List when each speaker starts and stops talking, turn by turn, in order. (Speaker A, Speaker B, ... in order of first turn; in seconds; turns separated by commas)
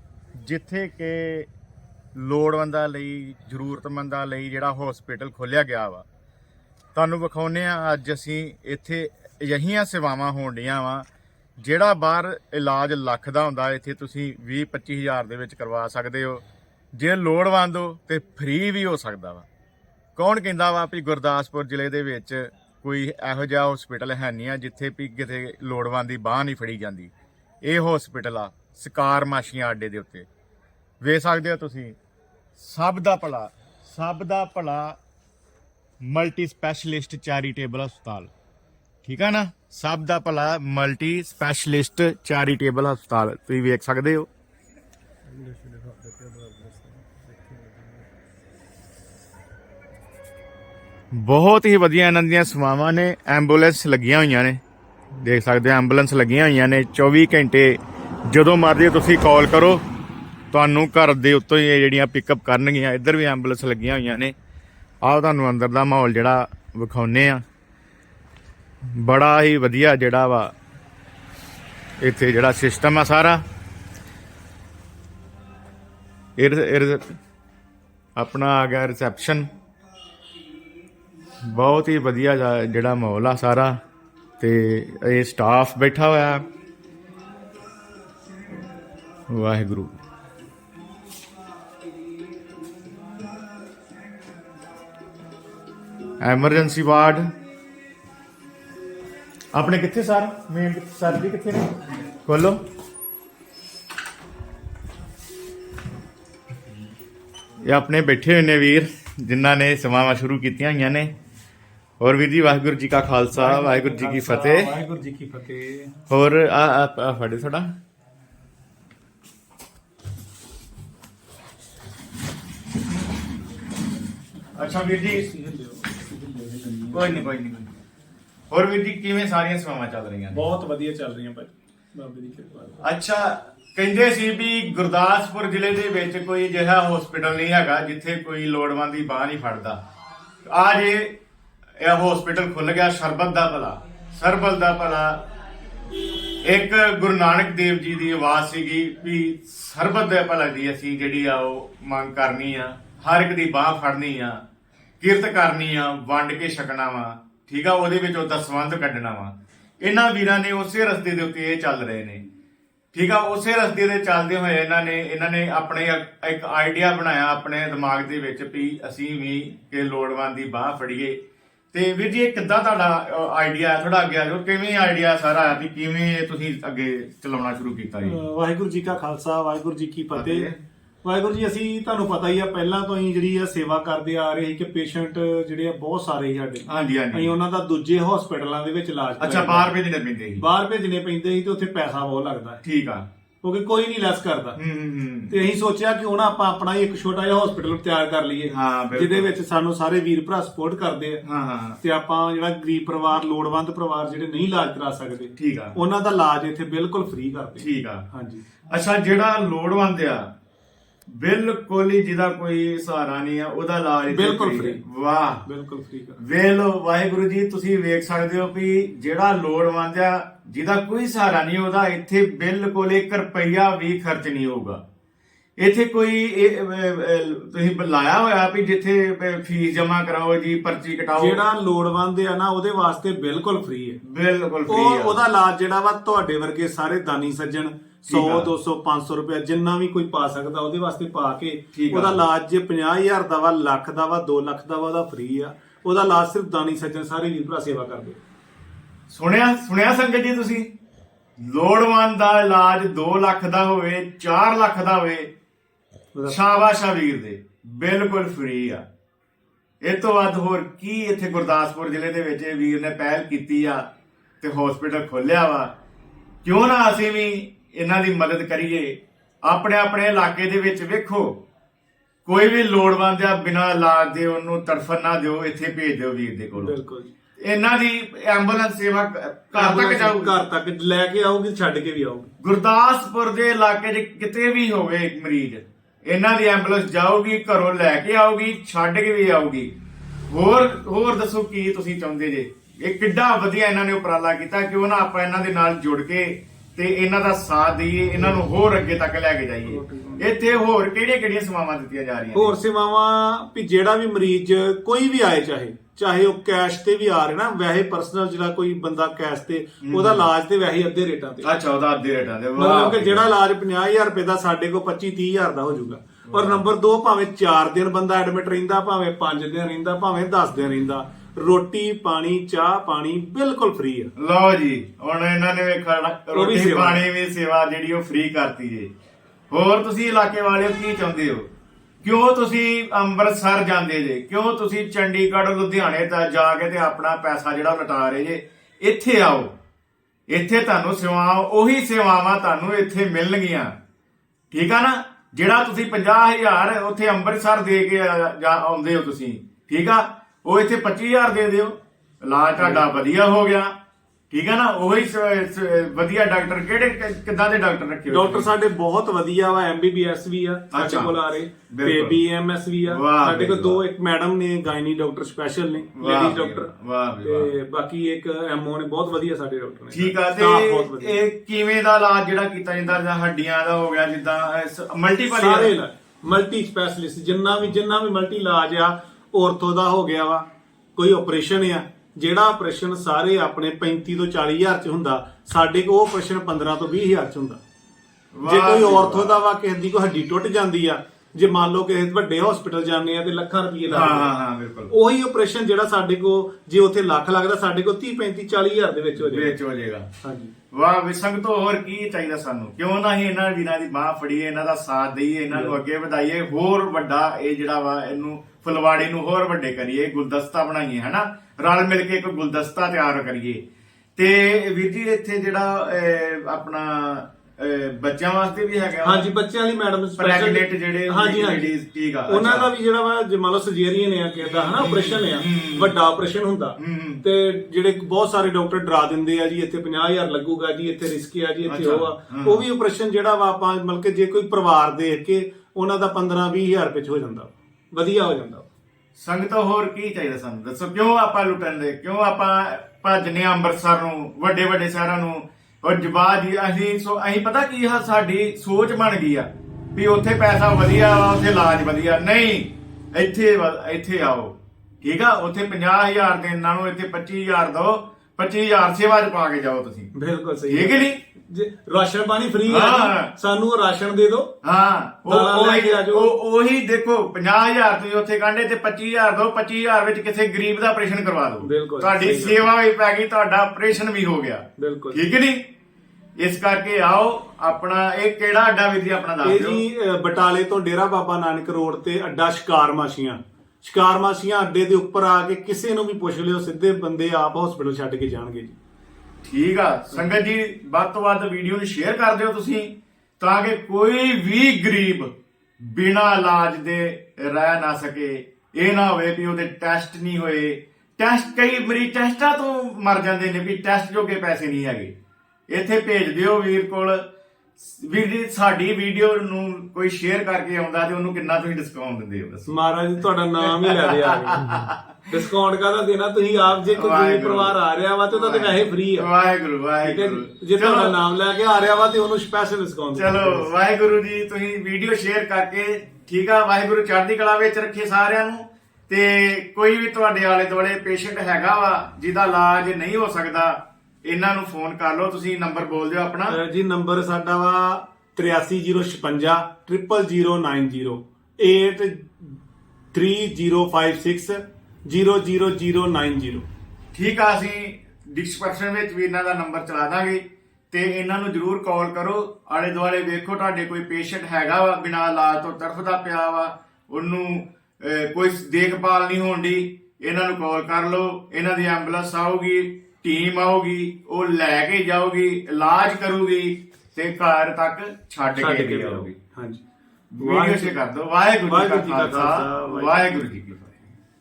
Speaker A: 0.4-1.5, Speaker A: 2.1-6.0, Speaker A: 6.9-11.1, Speaker A: 11.6-16.4, Speaker A: 16.9-19.5, Speaker A: 20.1-27.1, Speaker A: 27.6-30.3, Speaker A: 31.0-31.9, Speaker A: 32.6-35.0, Speaker A: 36.0-38.3, Speaker A: 39.0-44.3, Speaker B: 45.3-47.8, Speaker A: 51.1-54.6, Speaker A: 55.2-57.8, Speaker A: 58.3-59.8, Speaker A: 60.5-64.3, Speaker A: 65.0-67.4, Speaker A: 68.9-70.5, Speaker A: 72.0-73.4, Speaker A: 76.4-77.2, Speaker A: 78.2-79.5, Speaker A: 81.5-83.8, Speaker A: 84.4-86.5, Speaker A: 89.3-89.9, Speaker A: 96.2-97.3, Speaker A: 99.5-102.6, Speaker A: 107.7-111.1, Speaker A: 112.0-114.7, Speaker B: 113.3-116.0, Speaker A: 116.1-117.7, Speaker A: 124.5-125.3, Speaker B: 124.9-127.3, Speaker A: 126.9-127.7, Speaker A: 128.5-130.4, Speaker B: 130.3-132.8, Speaker A: 132.8-139.8, Speaker A: 140.5-141.1, Speaker A: 141.8-145.2, Speaker A: 146.4-154.4, Speaker A: 155.0-162.2, Speaker A: 162.9-171.2, Speaker A: 171.7-178.2, Speaker B: 178.0-180.5, Speaker A: 180.1-180.6, Speaker B: 181.0-189.7, Speaker A: 186.7-187.3, Speaker A: 189.2-190.4, Speaker B: 190.3-192.6, Speaker A: 192.6-193.1, Speaker B: 193.4-194.6, Speaker A: 194.6-195.3, Speaker B: 195.3-201.2, Speaker A: 198.5-199.3, Speaker A: 201.2-201.8, Speaker B: 201.8-208.4, Speaker A: 205.4-205.8, Speaker A: 207.6-208.1, Speaker A: 208.7-210.3, Speaker A: 211.1-215.4, Speaker B: 214.1-214.8, Speaker B: 215.4-216.2, Speaker A: 216.2-224.8, Speaker A: 225.6-231.4, Speaker B: 231.2-234.0, Speaker A: 234.0-235.2, Speaker B: 234.7-248.2, Speaker A: 238.1-238.5, Speaker A: 241.7-242.2, Speaker A: 249.1-250.7, Speaker A: 251.4-255.3, Speaker B: 256.1-256.4, Speaker A: 256.2-258.8, Speaker A: 259.8-263.8, Speaker A: 264.4-265.7, Speaker A: 266.4-271.4, Speaker A: 272.2-276.7, Speaker B: 276.5-277.1, Speaker A: 277.4-280.3, Speaker B: 279.5-282.3, Speaker A: 282.4-289.7, Speaker A: 290.3-302.6, Speaker B: 299.6-300.6, Speaker B: 302.3-311.5, Speaker A: 309.8-310.3, Speaker A: 311.4-313.2, Speaker B: 312.6-324.1, Speaker A: 316.3-316.6, Speaker A: 324.1-328.9, Speaker B: 326.3-327.0, Speaker A: 329.5-331.5, Speaker A: 332.0-339.5, Speaker A: 340.3-343.7, Speaker A: 344.5-353.7, Speaker B: 352.6-352.9, Speaker A: 354.3-358.5, Speaker B: 358.1-371.2, Speaker A: 360.7-361.1, Speaker A: 361.7-362.2, Speaker A: 362.9-363.8, Speaker A: 365.9-367.5, Speaker A: 369.9-375.7, Speaker B: 375.3-380.4, Speaker B: 380.9-387.6, Speaker A: 388.3-389.4, Speaker B: 388.4-394.3, Speaker A: 393.9-394.9, Speaker B: 394.9-399.6, Speaker A: 399.1-400.1, Speaker B: 400.2-400.5, Speaker A: 400.7-413.6, Speaker B: 405.5-405.8, Speaker A: 414.2-419.3, Speaker B: 419.0-421.7, Speaker A: 420.2-422.7, Speaker B: 422.3-438.7, Speaker A: 424.5-425.9, Speaker A: 426.8-427.2, Speaker A: 431.7-432.6, Speaker A: 439.1-460.1, Speaker B: 460.1-464.5, Speaker A: 460.7-461.2, Speaker A: 462.7-463.3, Speaker A: 464.6-475.6, Speaker B: 465.3-466.3, Speaker B: 471.6-472.6, Speaker B: 474.8-475.2, Speaker A: 476.4-479.8, Speaker B: 479.4-488.8, Speaker A: 489.4-505.1, Speaker A: 505.7-507.2, Speaker A: 507.8-512.7, Speaker B: 512.7-519.3, Speaker A: 513.7-515.0, Speaker A: 516.9-517.7, Speaker A: 518.3-521.1, Speaker B: 520.0-523.7, Speaker A: 523.1-536.5, Speaker B: 536.5-542.6, Speaker B: 543.1-546.6, Speaker A: 547.1-569.3, Speaker B: 568.5-569.8, Speaker A: 570.3-574.1, Speaker B: 570.4-571.0, Speaker B: 571.7-573.2